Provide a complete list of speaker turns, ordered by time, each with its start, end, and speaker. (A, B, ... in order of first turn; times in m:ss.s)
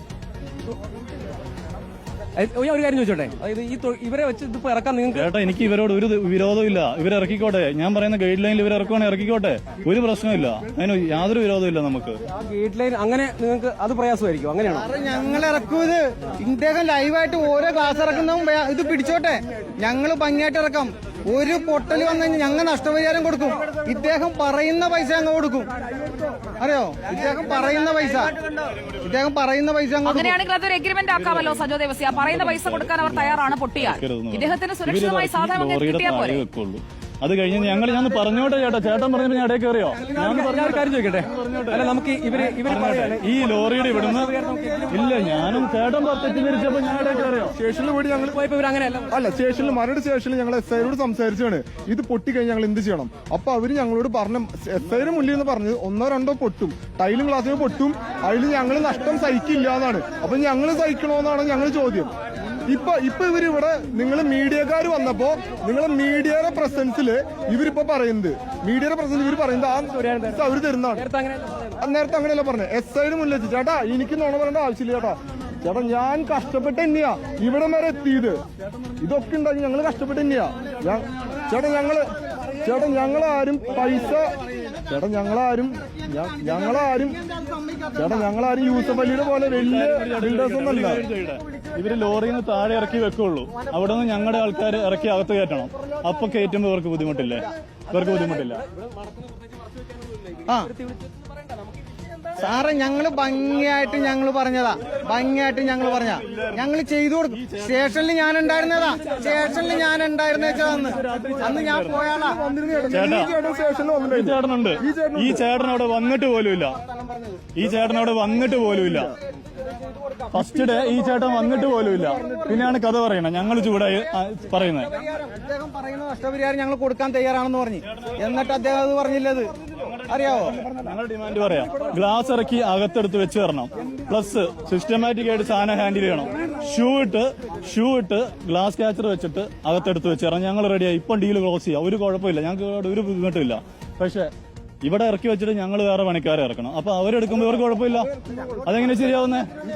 0:02.4-0:05.3 A
0:05.1-0:12.2 B
0:12.4-0:14.9 A
0:14.7-0:25.7 C
0:26.6-0:28.4 C
0:29.0-0:30.4 C
0:30.0-0:36.4 D
0:31.1-0:44.3 B
0:40.0-0:45.2 A
0:44.9-0:47.5 B
0:47.5-0:48.4 E
0:48.3-0:49.2 A
0:49.1-1:02.1 E
1:02.7-1:11.0 E
1:09.9-1:11.8 A
1:11.8-1:18.4 E
1:19.0-1:22.1 E
1:22.6-1:27.2 E
1:27.9-1:31.0 E
1:29.5-1:38.6 B
1:37.9-1:41.7 A
1:42.4-1:52.4 C
1:45.9-1:46.6 B
1:47.3-1:47.9 B
1:49.0-1:49.8 B
1:50.4-1:52.2 B
1:52.2-1:55.4 E
1:52.9-1:53.3 B
1:54.1-1:56.8 B
1:57.0-1:57.4 C
1:57.5-1:59.1 B
2:00.3-2:04.9 B
2:00.5-2:02.8 E
2:05.0-2:10.6 C
2:09.9-2:24.3 B
2:24.8-2:28.1 B
2:28.6-2:29.5 B